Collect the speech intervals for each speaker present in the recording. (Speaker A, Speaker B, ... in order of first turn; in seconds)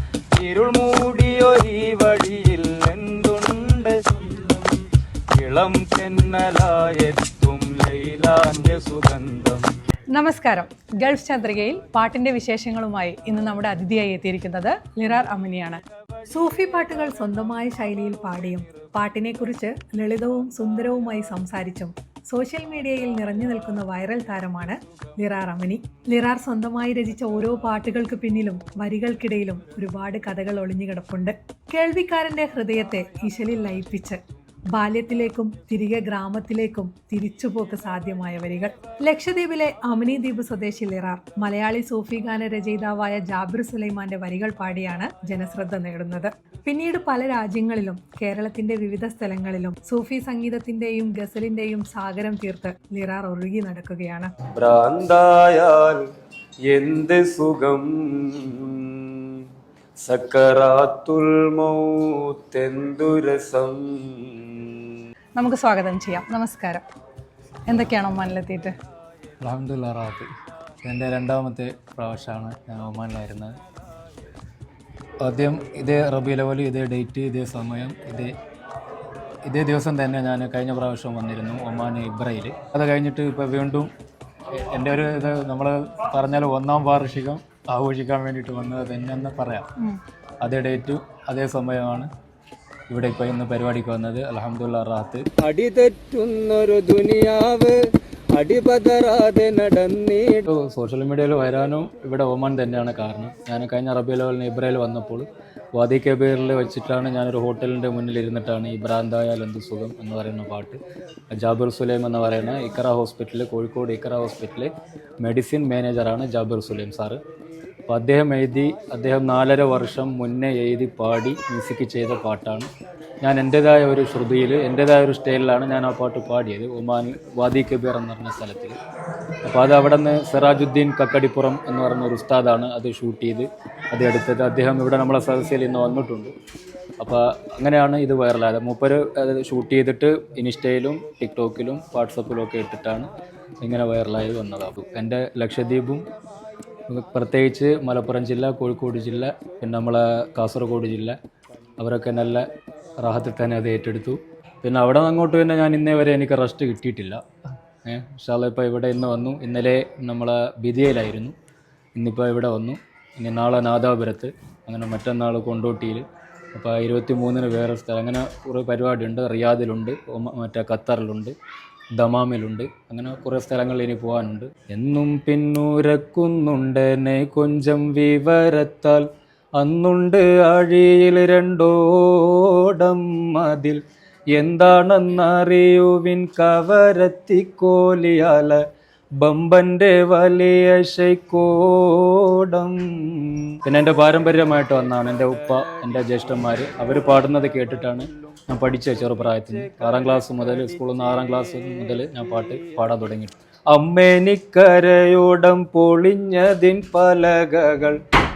Speaker A: 0.4-4.8, 5.4-9.7, 54.5-56.0, 56.7-59.3, 60.0-64.6, 95.4-97.8, 98.3-100.5, 199.7-200.7
Speaker B: 10.1-34.2, 34.8-54.3, 65.4-66.8, 67.7-68.7
Speaker C: 69.4-70.3, 70.8-73.5, 75.2-78.3, 79.5-83.9, 84.5-92.1, 92.9-95.4, 100.5-110.8, 111.3-117.2, 117.9-122.7, 123.2-128.8, 129.4-136.3, 137.0-143.1, 143.6-146.1, 146.9-151.2, 151.8-152.4, 153.0-157.2, 157.8-161.3, 162.0-171.3, 171.9-183.8, 184.3-188.6, 189.2-208.0